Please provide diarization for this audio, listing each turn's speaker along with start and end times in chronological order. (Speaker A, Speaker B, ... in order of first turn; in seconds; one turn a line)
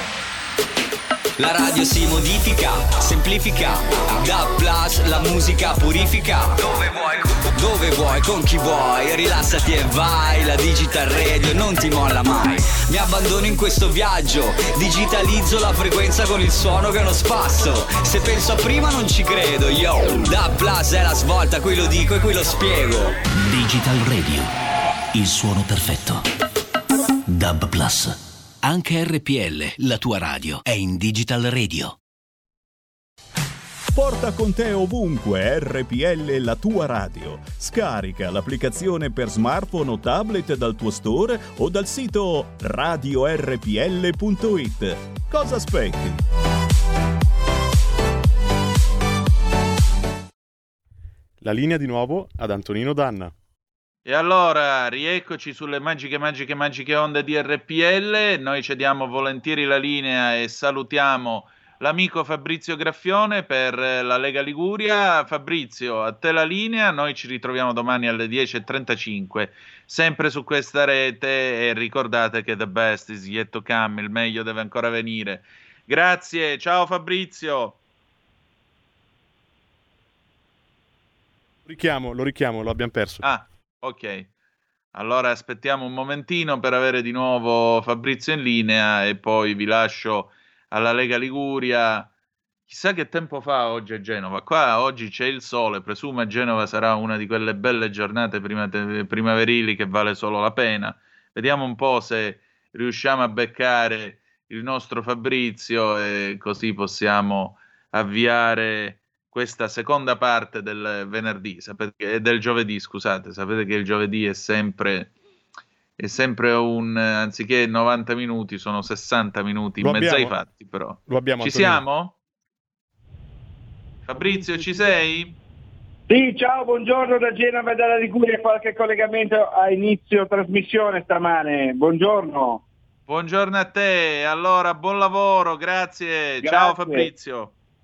Speaker A: 1.4-23.2
Speaker B: 25.2-26.0
Speaker B: 27.5-28.0
Speaker B: 28.7-29.4
Speaker B: 30.0-31.9
Speaker C: 33.9-46.2
Speaker D: 51.4-53.3
Speaker E: 54.0-77.8
Speaker D: 81.7-83.2
Speaker E: 83.2-84.3
Speaker E: 84.9-92.1
Speaker E: 92.7-115.1
Speaker E: 116.0-122.1
Speaker D: 119.8-120.3
Speaker D: 121.0-121.8
Speaker E: 124.0-125.3
Speaker F: 126.1-132.6
Speaker E: 133.1-137.5
Speaker F: 136.4-137.1